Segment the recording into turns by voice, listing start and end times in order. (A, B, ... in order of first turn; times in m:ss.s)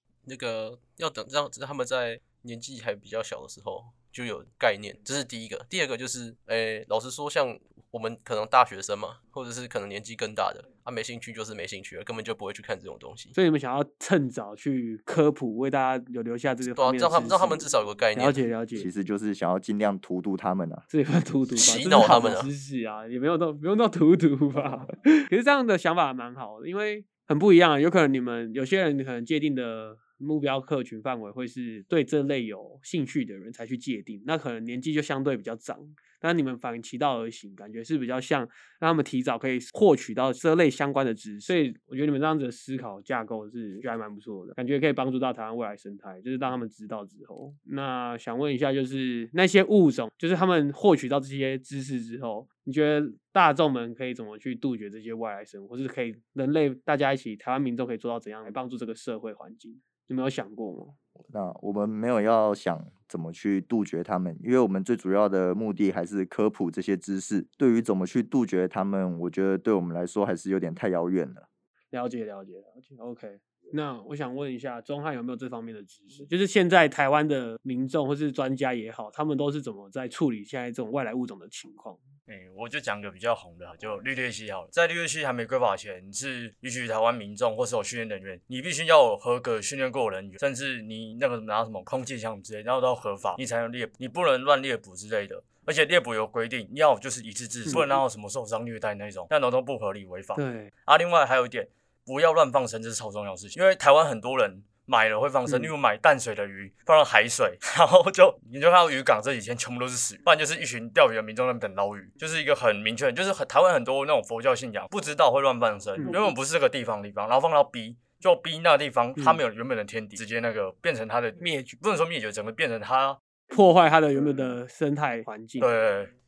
0:00.2-0:13.3 A
0:13.3-0:17.6 B
0:16.6-0:18.4 A
0:18.1-0:18.9 B
0:18.8-0:20.8 C
0:20.9-1:00.9 B
0:21.5-0:22.5 A
1:01.2-1:11.4 C
1:11.9-1:22.0 B
1:22.3-2:03.2 D
1:37.7-1:38.0 B
1:40.4-1:40.7 B
1:45.5-1:45.7 B
2:01.4-2:01.8 B
2:03.5-2:05.7 B
2:05.6-2:06.1 D